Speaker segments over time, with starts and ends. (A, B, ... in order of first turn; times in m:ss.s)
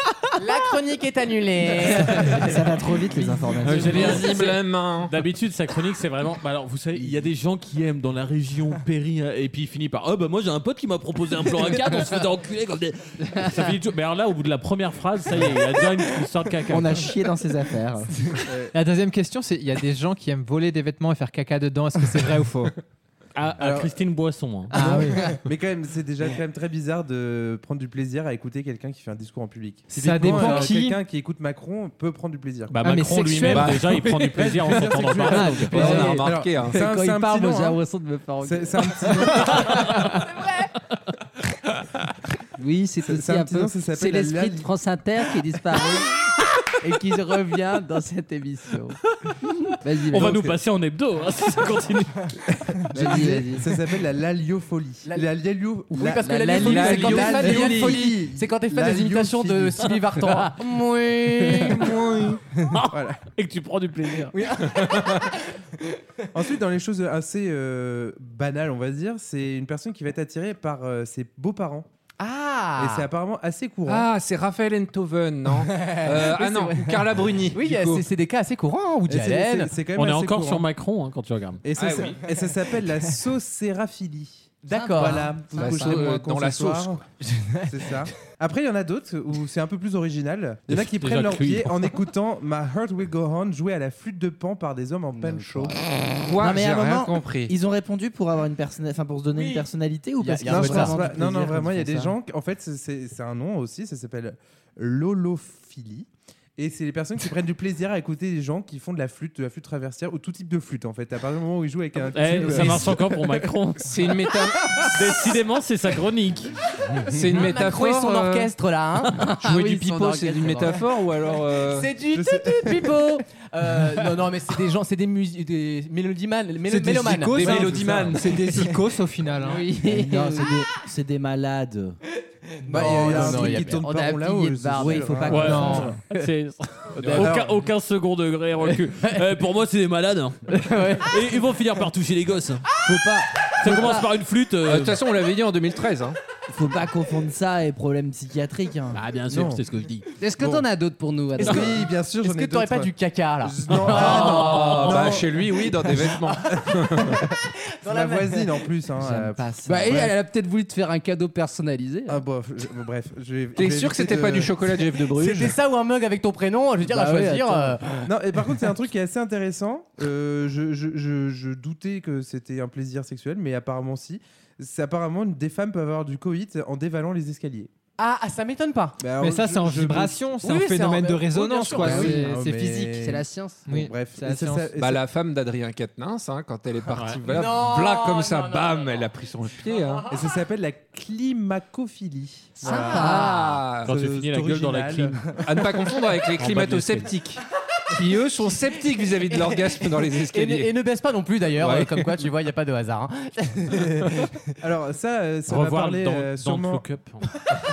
0:00.4-0:02.6 A
0:02.4-0:04.1 B
0:02.5-0:03.7 C
0:03.6-0:05.1 D
0:03.6-0:17.2 E
0:16.7-0:18.1 B
0:18.4-0:18.7 F
0:18.7-0:22.7 C
0:23.4-0:24.8 E
0:23.6-0:23.9 F
0:24.7-0:25.4 C
0:24.7-0:32.8 F
0:29.9-0:31.0 C
0:32.7-0:36.2 E
0:32.8-0:33.8 C
0:33.5-0:34.3 D
0:34.4-0:37.8 F
0:35.4-0:36.8 D
0:35.7-0:36.2 G
0:36.7-0:39.1 G
0:38.4-0:40.0 F
0:42.6-0:46.1 G
0:43.0-0:44.7 F
0:46.8-0:49.0 G
0:49.8-0:50.4 G
0:50.1-0:52.3 E
0:50.2-0:50.5 F
0:52.9-1:00.0 F
0:52.9-0:53.6 G
0:55.9-1:00.6 A
0:56.2-0:57.8 G
0:56.6-0:57.9 D
1:00.9-1:01.6 G
1:01.9-1:02.3 D
1:02.7-1:04.4 E
1:02.9-1:03.2 F
1:04.3-1:05.3 A
1:06.3-1:11.9 F
1:12.2-1:13.1 A
1:12.8-1:14.1 F
1:13.9-1:18.0 D
1:15.7-1:19.7 A
1:19.1-1:20.6 F
1:19.9-1:21.6 E
1:21.6-1:27.0 F
1:21.8-1:22.2 D
1:24.6-1:25.9 A
1:24.7-1:25.7 G
1:25.5-1:27.0 D
1:27.2-1:27.9 A
1:27.7-1:35.8 F
1:30.7-1:31.9 E
1:35.2-1:35.8 G
1:36.2-1:37.6 D
1:36.4-1:42.1 B
1:39.4-1:39.6 A
1:40.2-1:41.1 A
1:40.4-1:53.2 F
1:52.1-1:54.1 E
1:52.4-1:52.9 D
1:53.8-1:54.8 D
1:54.8-1:56.5 E
1:57.1-1:58.5 D
1:57.3-1:59.6 A
1:59.3-2:01.9 D
1:59.4-2:00.7 G
2:00.3-2:00.7 A
2:01.7-2:07.7 A
2:02.1-2:03.0 F
2:06.7-2:09.7 C
2:07.3-2:08.5 D
2:07.6-2:08.1 F
2:09.4-2:10.7 G
2:09.8-2:12.0 B
2:12.6-2:13.9 A
2:12.7-2:15.6 F
2:12.8-2:15.9 G
2:14.8-2:15.3 B
2:15.3-2:22.9 E
2:15.3-2:16.0 C
2:17.0-2:17.4 D
2:17.1-2:17.5 F
2:20.6-2:21.1 A
2:23.6-2:25.0 E
2:24.6-2:26.2 D
2:26.5-2:29.0 B
2:28.9-2:30.1 E
2:29.3-2:29.6 F
2:30.2-2:31.8 G
2:30.4-2:30.7 F
2:31.4-2:35.2 A
2:31.4-2:35.4 F
2:33.9-2:37.1 D
2:36.1-2:36.4 A
2:37.8-2:38.6 A
2:37.8-2:40.2 F
2:39.1-2:42.2 G
2:42.1-2:44.6 F
2:43.6-2:45.6 D
2:45.1-2:48.0 A
2:46.9-2:47.7 G
2:47.2-2:47.5 B
2:48.0-2:57.7 F
2:58.0-2:59.0 A
2:59.0-3:00.2 F
2:59.2-3:02.5 C
3:00.4-3:02.2 A
3:01.7-3:05.0 F
3:01.8-3:03.6 G
3:03.7-3:04.7 C
3:04.8-3:10.1 D
3:06.9-3:07.2 E
3:07.3-3:09.1 A
3:09.6-3:10.1 A
3:10.1-3:13.0 F
3:12.6-3:13.6 A
3:12.6-3:13.5 G
3:12.9-3:13.9 D
3:13.8-3:15.4 E
3:13.8-3:15.6 F
3:15.4-3:17.4 D
3:16.4-3:17.2 E
3:17.9-3:20.7 D
3:19.3-3:24.4 A
3:21.6-3:22.1 D
3:24.6-3:26.8 F
3:25.5-3:27.2 E